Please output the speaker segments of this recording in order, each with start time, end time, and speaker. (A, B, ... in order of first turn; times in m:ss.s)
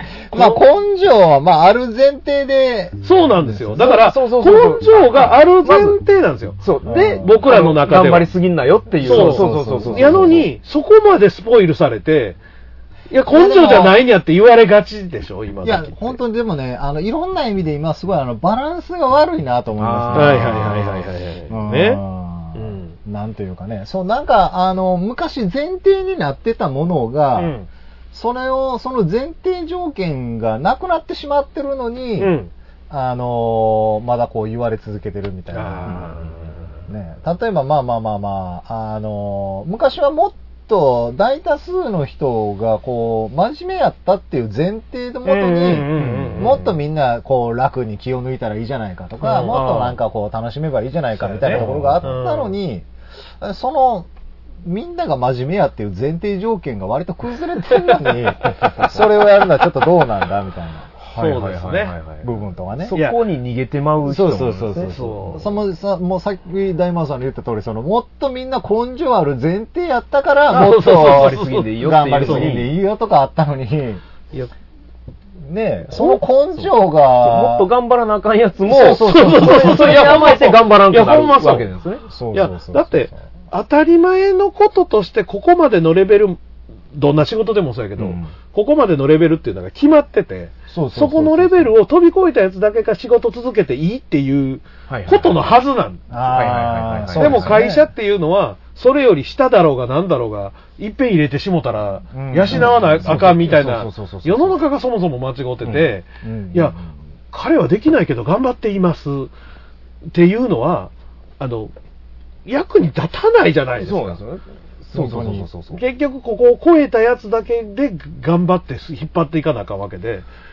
0:00.3-0:00.6 A
0:00.3-0:03.9 B
0:03.0-0:08.3 A
0:03.8-0:06.0 C
0:06.6-0:10.5 C
0:06.8-0:07.4 B
0:09.0-0:10.5 B
0:09.0-0:12.4 A
0:13.1-0:16.2 A
0:13.3-0:14.0 B
0:15.6-0:20.8 B
0:19.8-0:21.0 C
0:20.1-0:22.0 A
0:21.5-0:27.5 B
0:22.5-0:23.0 A
0:27.4-0:27.7 A
0:28.1-0:32.4 B
0:32.2-0:32.5 A
0:32.9-0:36.3 B
0:35.5-0:36.7 A
0:36.8-0:52.9 B
0:45.2-0:46.8 A
0:46.0-0:46.5 C
0:49.2-0:50.0 A
0:51.2-0:52.6 A
0:51.5-0:52.1 C
0:53.4-0:54.1 B
0:54.6-1:00.9 B
1:01.0-1:05.3 C
1:01.1-1:01.9 A
1:02.2-1:03.0 B
1:02.9-1:03.2 A
1:04.0-1:14.0 B
1:04.8-1:05.5 A
1:10.5-1:12.5 A
1:10.7-1:12.7 C
1:15.4-1:17.7 B
1:17.2-1:22.5 C
1:18.6-1:20.5 B
1:18.7-1:21.7 A
1:22.1-1:23.2 B
1:22.3-1:26.4 A
1:26.9-1:36.0 A
1:28.0-1:28.3 C
1:30.7-1:31.7 B
1:34.9-1:35.5 C
1:36.1-1:37.9 B
1:36.3-1:37.5 C
1:37.2-1:46.8 A
1:42.1-1:43.5 B
1:42.3-1:44.6 C
1:46.2-1:46.9 B
1:47.3-1:49.3 A
1:50.1-1:51.7 A
1:52.4-1:54.2 A
1:53.8-1:55.8 C
1:54.9-1:55.5 B
1:55.7-2:00.2 A